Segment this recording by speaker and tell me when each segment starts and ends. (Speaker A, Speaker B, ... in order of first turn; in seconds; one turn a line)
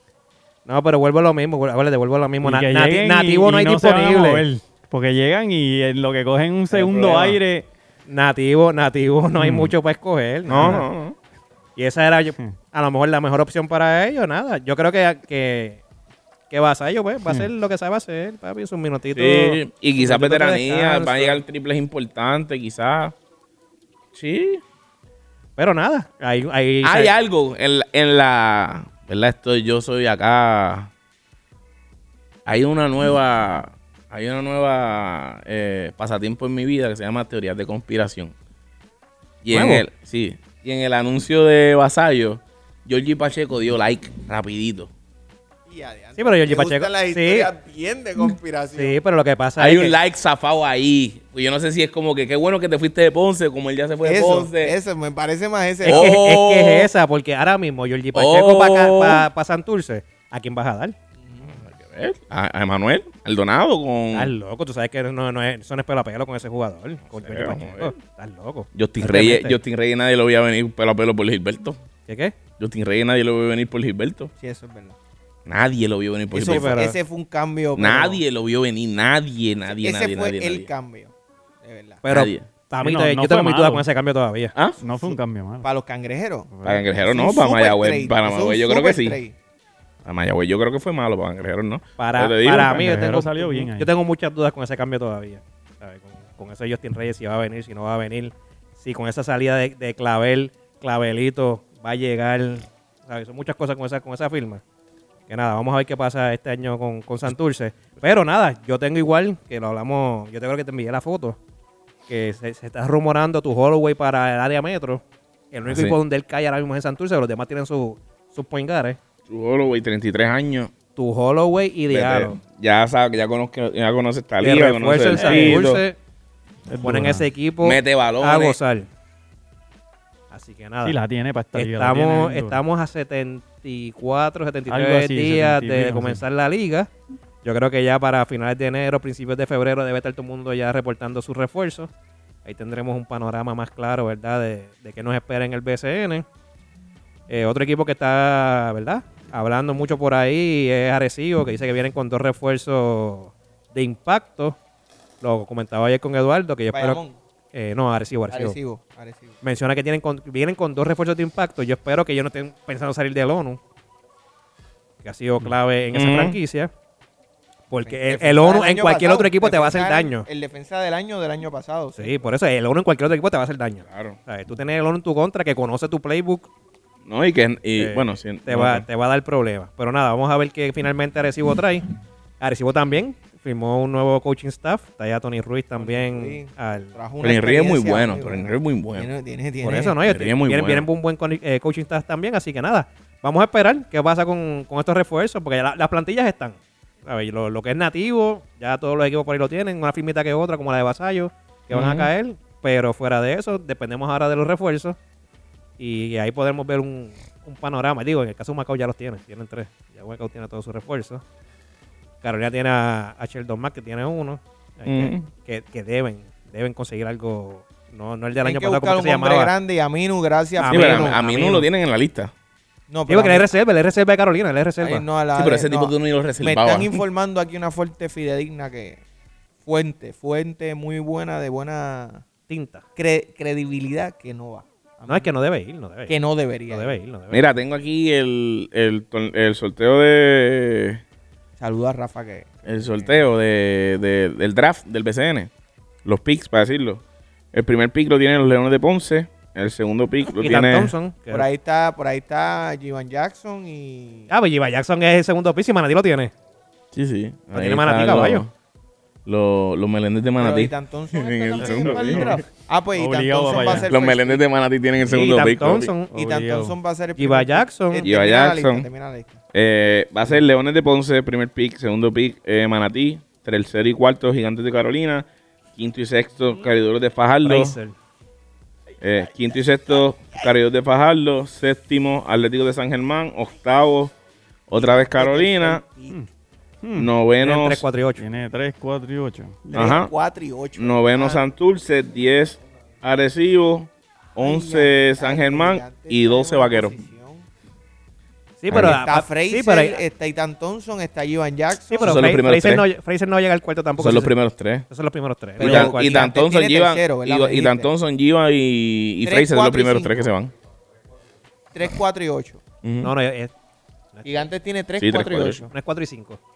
Speaker A: 0.7-4.5
Speaker B: 2.4-7.7
Speaker A: 6.7-7.4
Speaker A: 8.1-10.8
Speaker B: 9.4-9.7
Speaker C: 10.5-11.2
Speaker B: 10.6-10.8
Speaker A: 11.8-15.8
Speaker A: 16.5-21.4
Speaker C: 19.1-23.1
Speaker C: 24.1-24.6
Speaker A: 25.6-27.1
Speaker C: 26.8-30.9
Speaker C: 32.5-38.3
Speaker C: 39.4-44.9
Speaker A: 39.5-39.9
Speaker D: 45.7-49.0
Speaker A: 46.2-47.5
Speaker A: 48.8-50.0
Speaker C: 49.6-54.7
Speaker D: 54.0-56.1
Speaker A: 55.8-61.0
Speaker C: 55.9-56.9
Speaker C: 58.1-59.3
Speaker D: 61.3-61.5
Speaker C: 61.5-64.3
Speaker A: 64.1-69.6
Speaker C: 67.1-68.0
Speaker C: 68.7-71.8
Speaker A: 72.1-72.3
Speaker C: 72.6-74.3
Speaker D: 74.4-75.0
Speaker C: 75.5-76.9
Speaker D: 76.3-78.2
Speaker A: 76.4-77.0
Speaker C: 77.8-80.7
Speaker D: 79.7-81.1
Speaker D: 81.6-82.0
Speaker A: 82.0-84.5
Speaker C: 82.1-82.5
Speaker B: 82.8-83.9
Speaker C: 84.5-84.8
Speaker B: 84.8-85.7
Speaker D: 85.6-86.5
Speaker B: 86.6-86.8
Speaker C: 86.6-89.2
Speaker D: 87.0-89.3
Speaker C: 90.0-92.9
Speaker A: 92.0-104.6
Speaker B: 92.7-93.9
Speaker A: 105.3-111.4
Speaker A: 112.1-119.0
Speaker C: 115.7-116.0
Speaker C: 119.3-120.7
Speaker A: 121.0-122.4
Speaker C: 121.9-125.8
Speaker A: 124.4-126.0
Speaker B: 125.1-125.7
Speaker B: 126.7-127.3
Speaker A: 126.8-128.9
Speaker C: 127.6-128.6
Speaker A: 130.3-131.0
Speaker B: 130.8-132.6
Speaker A: 131.6-136.9
Speaker B: 134.7-136.2
Speaker A: 137.4-141.9
Speaker A: 142.4-146.3
Speaker A: 147.3-154.6
Speaker A: 155.2-157.0
Speaker D: 156.7-157.2
Speaker A: 157.5-158.6
Speaker D: 158.3-159.4
Speaker A: 159.4-163.6
Speaker A: 165.0-166.7
Speaker C: 165.9-166.4
Speaker A: 167.7-170.3
Speaker D: 167.8-172.2
Speaker A: 172.0-176.5
Speaker C: 173.8-174.2
Speaker C: 177.1-178.9
Speaker A: 177.8-181.9
Speaker A: 182.4-186.9
Speaker D: 185.8-190.0
Speaker C: 187.2-189.1
Speaker A: 189.6-205.0
Speaker C: 190.1-190.9
Speaker C: 201.7-202.1
Speaker A: 205.8-211.2
Speaker A: 212.2-219.5
Speaker C: 214.9-215.3
Speaker D: 218.4-221.2
Speaker A: 220.6-221.7
Speaker C: 220.7-222.3
Speaker D: 222.9-223.6
Speaker A: 223.1-225.1
Speaker D: 224.8-229.0
Speaker C: 225.4-227.0
Speaker D: 229.7-232.3
Speaker A: 232.5-232.8
Speaker D: 233.0-235.3
Speaker A: 235.1-236.2
Speaker D: 236.1-237.0
Speaker A: 236.7-237.5
Speaker C: 237.3-241.0
Speaker D: 241.6-243.2
Speaker C: 242.7-245.5
Speaker C: 246.1-247.0
Speaker C: 247.5-250.9
Speaker A: 250.4-251.5
Speaker D: 251.3-254.3
Speaker A: 254.3-256.3
Speaker C: 256.9-258.5
Speaker A: 257.5-258.4
Speaker C: 259.3-262.4
Speaker D: 260.4-264.4
Speaker B: 261.6-262.4
Speaker B: 262.9-263.9
Speaker C: 263.9-265.9
Speaker A: 265.1-266.1
Speaker B: 266.1-266.8
Speaker D: 266.1-269.4
Speaker A: 267.2-268.1
Speaker C: 268.0-268.9
Speaker C: 269.5-277.8
Speaker A: 277.4-277.9
Speaker C: 279.0-284.1
Speaker C: 284.7-285.8
Speaker D: 284.7-286.2
Speaker B: 286.8-287.1
Speaker C: 287.0-287.9
Speaker A: 287.4-288.2
Speaker B: 288.2-289.9
Speaker D: 289.7-291.5
Speaker C: 289.7-290.1
Speaker C: 290.8-296.9
Speaker D: 294.4-297.5
Speaker A: 298.6-300.0
Speaker C: 298.7-299.0
Speaker D: 298.7-302.2
Speaker A: 301.9-304.3
Speaker C: 302.0-302.9
Speaker C: 304.0-304.9
Speaker A: 304.9-306.2
Speaker C: 305.6-310.5
Speaker D: 305.6-307.9
Speaker D: 309.2-310.3
Speaker D: 311.7-312.6
Speaker C: 312.8-313.1
Speaker A: 313.0-313.5
Speaker A: 314.1-314.4
Speaker D: 314.2-315.7
Speaker C: 315.0-315.7
Speaker A: 315.7-316.4